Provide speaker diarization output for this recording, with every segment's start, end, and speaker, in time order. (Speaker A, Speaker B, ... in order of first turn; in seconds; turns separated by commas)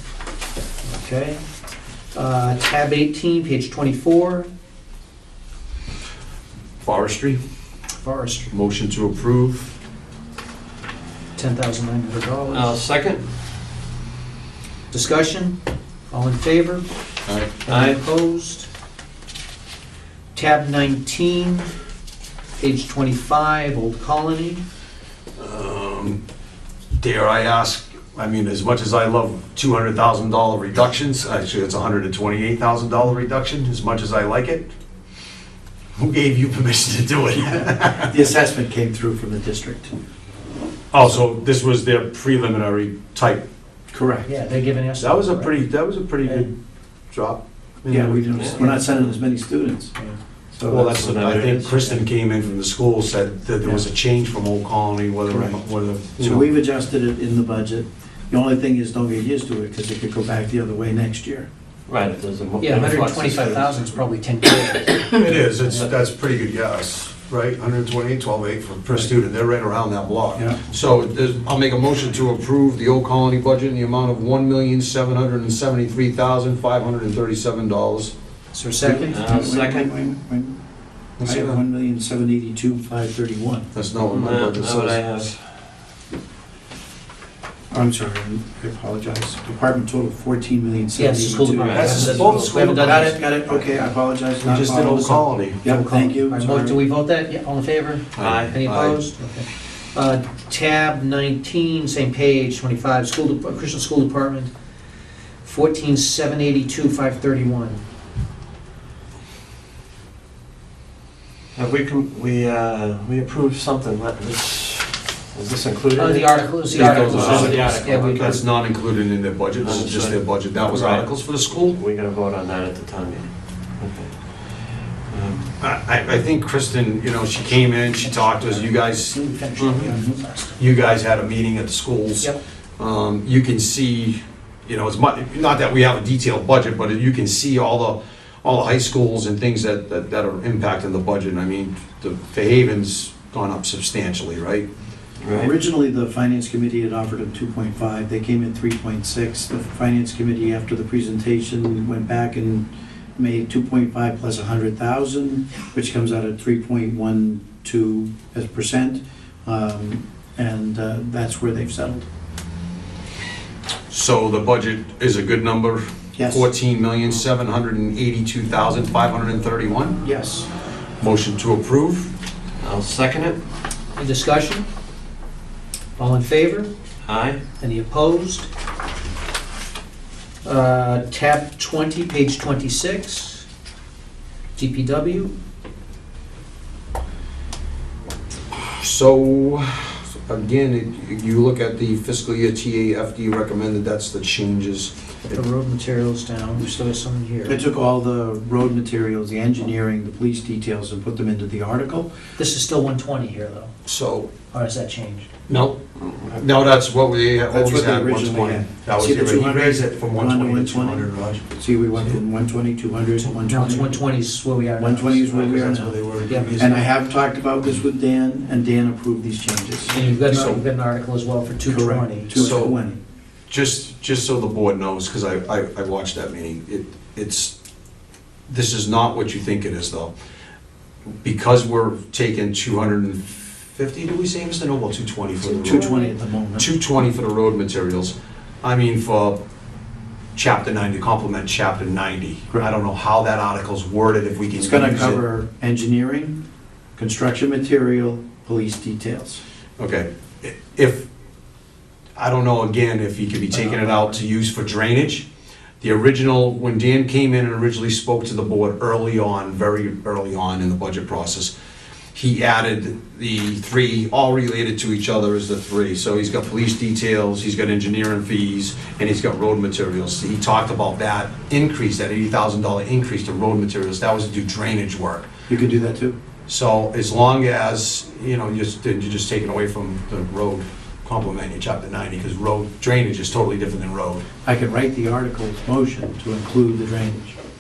Speaker A: 0.8-1.4, Speaker A: 2.1-4.5, Speaker B: 6.8-7.4, Speaker A: 8.0-8.5, Speaker B: 8.5-9.7, Speaker A: 11.4-12.8, Speaker C: 12.5-13.3, Speaker A: 14.9-15.6, Speaker A: 16.1-16.9, Speaker B: 17.3-17.5, Speaker A: 17.6-18.7, Speaker C: 17.7-18.0, Speaker A: 20.3-21.7, Speaker A: 22.6-24.6, Speaker B: 25.4-26.2, Speaker B: 26.9-34.7, Speaker B: 36.0-38.2, Speaker D: 38.0-39.9, Speaker B: 40.9-43.5, Speaker D: 43.9-44.3, Speaker A: 44.2-45.6, Speaker B: 45.0-46.5, Speaker A: 46.2-46.5, Speaker B: 47.1-48.7, Speaker D: 47.9-50.0, Speaker C: 48.3-49.1, Speaker D: 50.5-50.9, Speaker B: 50.7-56.5, Speaker C: 50.7-52.1, Speaker D: 55.3-55.6, Speaker D: 56.2-61.5, Speaker C: 61.9-64.0, Speaker A: 62.6-65.9, Speaker B: 65.2-78.1, Speaker D: 70.3-70.6, Speaker A: 78.5-79.2, Speaker D: 78.8-80.6, Speaker C: 79.1-79.9, Speaker B: 81.2-81.6, Speaker D: 81.2-83.7, Speaker B: 83.7-85.3, Speaker C: 84.1-85.4, Speaker D: 87.7-96.8, Speaker A: 91.0-93.2, Speaker C: 91.6-93.0, Speaker B: 91.8-93.1, Speaker B: 94.4-95.7, Speaker A: 95.6-104.5, Speaker B: 98.2-99.0, Speaker C: 98.2-98.6, Speaker A: 105.4-107.8, Speaker C: 111.6-118.4, Speaker A: 116.0-118.5, Speaker B: 116.7-121.8, Speaker C: 119.6-125.5, Speaker B: 125.6-129.2, Speaker A: 127.4-130.6, Speaker C: 129.6-129.9, Speaker D: 129.9-130.2, Speaker B: 130.6-144.7, Speaker C: 145.2-145.5, Speaker D: 145.3-162.1, Speaker B: 163.9-170.0, Speaker D: 166.2-166.5, Speaker D: 170.0-170.5, Speaker B: 171.0-172.1, Speaker C: 172.6-173.4, Speaker A: 173.9-174.7, Speaker A: 176.0-176.7, Speaker C: 177.1-177.4, Speaker A: 177.6-178.5, Speaker A: 180.4-183.5, Speaker A: 184.6-185.4, Speaker B: 188.5-194.9, Speaker A: 195.3-197.6, Speaker D: 197.5-202.1, Speaker A: 202.4-203.7, Speaker B: 203.8-204.3, Speaker A: 204.5-205.3, Speaker B: 205.5-205.8, Speaker C: 206.0-206.4, Speaker B: 206.4-211.4, Speaker D: 207.5-214.0, Speaker A: 213.3-215.7, Speaker D: 214.8-216.0, Speaker B: 215.2-216.9, Speaker A: 216.3-216.5, Speaker D: 216.6-220.0, Speaker A: 219.9-222.7, Speaker B: 220.2-220.6, Speaker D: 221.7-223.0, Speaker B: 222.3-222.8, Speaker B: 223.5-227.6, Speaker B: 228.5-230.1, Speaker B: 231.2-236.0, Speaker D: 235.6-236.7, Speaker B: 236.6-239.4, Speaker B: 240.3-245.2, Speaker D: 244.6-246.4, Speaker D: 247.0-249.4, Speaker B: 249.8-251.1, Speaker B: 252.2-255.3, Speaker D: 253.5-254.1, Speaker B: 255.8-261.5, Speaker B: 262.1-275.3, Speaker D: 275.5-276.2, Speaker B: 276.5-284.2, Speaker D: 284.4-287.4